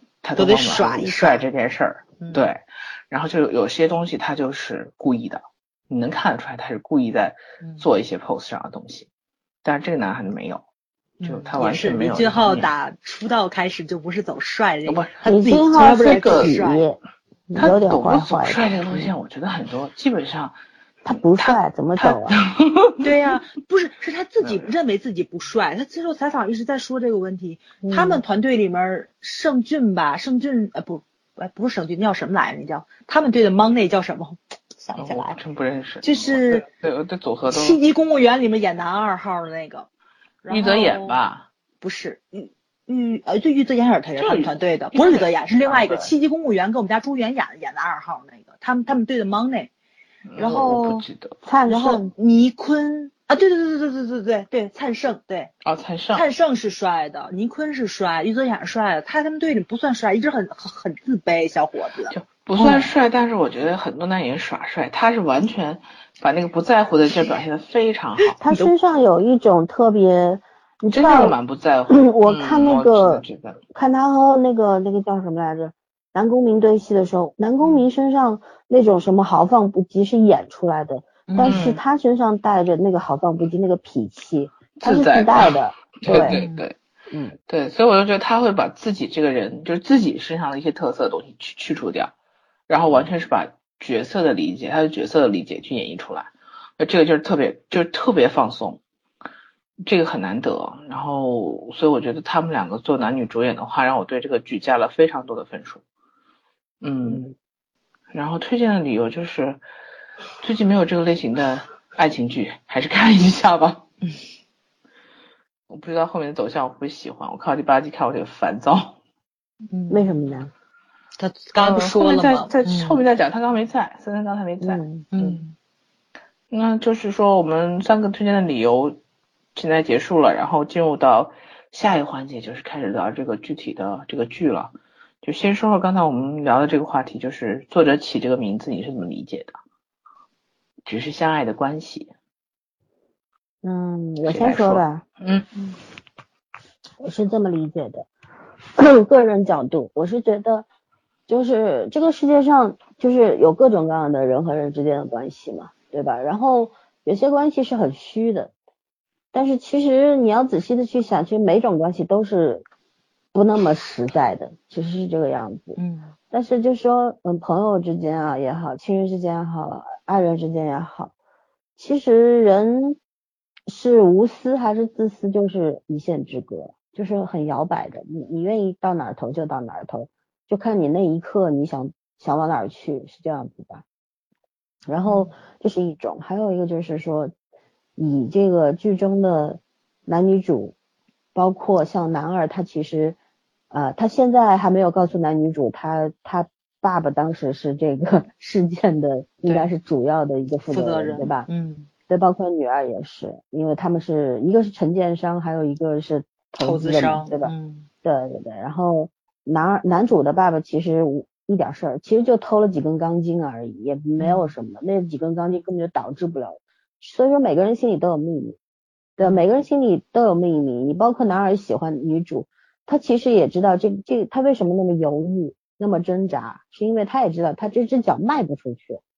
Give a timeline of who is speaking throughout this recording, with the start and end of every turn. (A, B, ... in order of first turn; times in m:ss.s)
0:00.2-0:09.1 A
0:00.4-0:01.4 B
0:02.2-0:02.4 B
0:09.6-0:10.6 A
0:11.2-0:16.8 B
0:11.2-0:12.7 A
0:14.8-0:15.1 A
0:15.2-0:17.0 C
0:15.8-0:16.6 A
0:17.5-0:19.1 C
0:17.6-0:20.6 A
0:21.0-0:22.5 C
0:21.4-0:23.0 A
0:23.0-0:35.4 B
0:27.8-0:28.2 C
0:35.0-0:37.8 A
0:36.0-0:36.6 B
0:37.5-0:39.9 B
0:40.4-0:41.2 B
0:40.5-0:41.5 A
0:41.8-0:49.7 B
0:44.2-0:46.1 A
0:50.3-0:51.4 A
0:50.4-0:51.0 B
0:51.4-0:52.1 C
0:51.7-0:55.5 B
0:55.6-0:56.2 A
0:56.1-1:02.9 B
1:02.1-1:08.4 A
1:08.4-1:11.4 C
1:08.4-1:08.7 B
1:10.9-1:13.6 A
1:11.9-1:26.4 C
1:17.6-1:17.9 B
1:21.3-1:21.6 B
1:21.4-1:21.8 A
1:24.8-1:26.7 A
1:26.1-1:26.6 B
1:27.1-1:27.4 C
1:27.5-1:32.1 A
1:32.7-1:38.8 A
1:39.8-1:45.8 A
1:46.8-1:47.3 A
1:48.1-1:49.6 A
1:50.4-1:53.8 A
1:55.7-1:59.0 A
1:59.7-2:00.1 B
1:59.9-2:00.5 C
2:01.2-2:03.0 B
2:01.6-2:05.4 A
2:04.6-2:05.1 C
2:05.1-2:05.5 B
2:06.5-2:09.0 A
2:09.5-2:19.6 A
2:20.8-2:22.1 A
2:23.6-2:25.0 C
2:24.2-2:25.5 A
2:27.0-2:28.1 C
2:28.8-2:30.6 C
2:31.3-2:38.5 C
2:39.3-2:42.6 C
2:43.3-2:45.8 C
2:45.8-2:46.1 B
2:46.3-2:51.1 C
2:51.8-2:53.0 C
2:53.7-3:03.8 C
3:04.9-3:07.3 C
3:05.0-3:05.3 B
3:08.0-3:10.7 C
3:11.3-3:13.2 C
3:13.7-3:21.5 C
3:19.4-3:19.7 B
3:20.7-3:21.9 B
3:22.1-3:27.5 C
3:26.6-3:27.9 B
3:28.0-3:38.6 C
3:34.2-3:34.5 B
3:39.2-3:49.0 C